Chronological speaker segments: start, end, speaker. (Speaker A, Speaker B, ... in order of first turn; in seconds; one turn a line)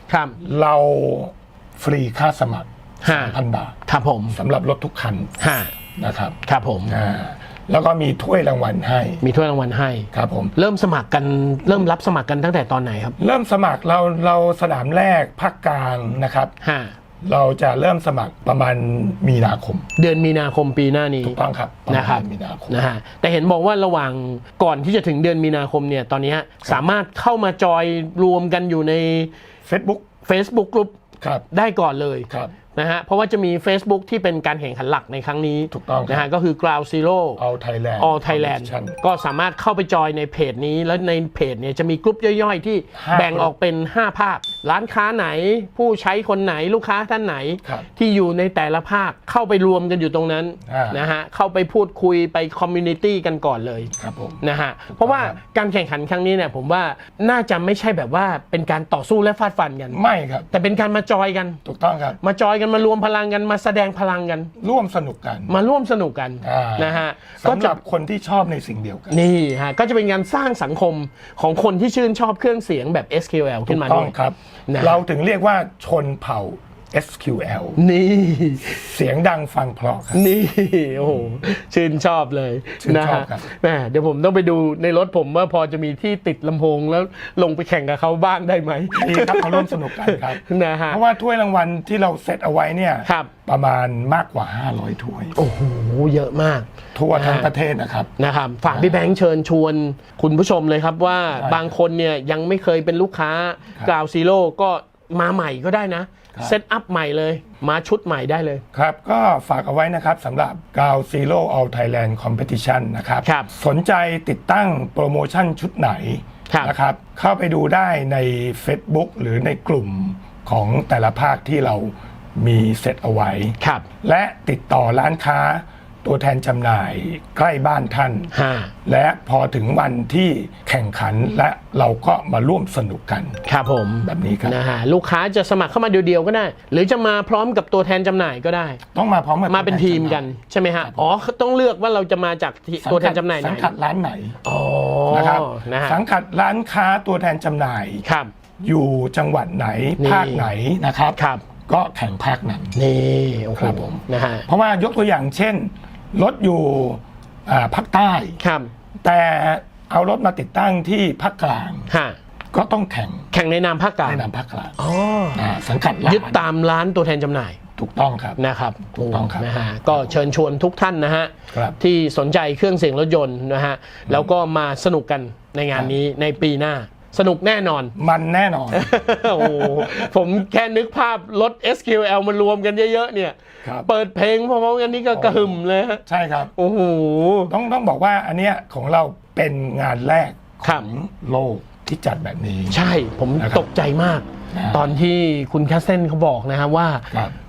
Speaker A: 0.1-0.4
Speaker B: 0.4-3.8
Speaker A: 3.0-3.4
Speaker A: 3.9-4.4
Speaker B: 4.3-5.4
Speaker A: 5.4-5.7
Speaker B: 6.0-6.4
Speaker A: 6.5-7.0
Speaker B: 6.9-9.2
Speaker A: 9.2-13.2
Speaker B: 10.1-10.5
Speaker B: 13.2-16.5
Speaker A: 16.6-16.9
Speaker B: 17.2-19.9
Speaker A: 20.0-21.4
Speaker B: 21.2-22.8
Speaker A: 21.9-29.3
Speaker B: 29.6-30.1
Speaker A: 30.2-30.9
Speaker A: 31.5-37.4
Speaker B: 35.7-36.3
Speaker B: 37.4-39.0
Speaker A: 38.0-60.0
Speaker B: 43.0-43.5
Speaker B: 50.6-51.1
Speaker B: 54.0-54.4
Speaker B: 55.0-55.4
Speaker B: 59.9-60.5
Speaker A: 60.5-61.6
Speaker B: 61.6-62.2
Speaker A: 62.2-64.5
Speaker B: 64.6-65.5
Speaker A: 65.5-67.8
Speaker B: 66.4-69.2
Speaker A: 69.1-74.2
Speaker B: 73.7-77.8
Speaker A: 74.7-75.0
Speaker A: 77.8-78.8
Speaker B: 78.7-80.2
Speaker A: 80.1-91.0
Speaker B: 82.8-83.5
Speaker B: 88.9-95.4
Speaker A: 95.4-97.5
Speaker B: 97.0-98.1
Speaker A: 98.2-108.6
Speaker B: 98.7-99.0
Speaker B: 101.3-101.7
Speaker B: 108.7-128.3
Speaker A: 113.2-113.5
Speaker A: 123.6-123.9
Speaker A: 128.3-128.7
Speaker B: 128.8-133.4
Speaker A: 133.4-138.8
Speaker B: 134.0-134.6
Speaker B: 138.9-140.3
Speaker A: 139.5-143.7
Speaker B: 142.8-144.4
Speaker A: 144.4-146.0
Speaker B: 145.1-148.0
Speaker A: 148.0-148.3
Speaker B: 148.6-152.8
Speaker A: 150.0-150.5
Speaker A: 151.2-151.4
Speaker A: 152.8-154.5
Speaker B: 153.6-158.4
Speaker A: 158.4-158.7
Speaker B: 159.0-161.9
Speaker A: 161.9-162.2
Speaker B: 162.5-163.3
Speaker A: 163.3-164.2
Speaker B: 164.1-164.8
Speaker A: 164.8-165.4
Speaker B: 165.3-166.4
Speaker A: 166.1-167.6
Speaker B: 167.8-168.4
Speaker A: 168.4-177.9
Speaker B: 168.9-170.2
Speaker B: 171.5-171.8
Speaker B: 178.0-180.1
Speaker A: 178.7-186.0
Speaker B: 185.1-186.5
Speaker A: 186.6-187.5
Speaker B: 187.5-192.8
Speaker A: 192.7-197.1
Speaker B: 193.4-193.7
Speaker B: 194.5-194.9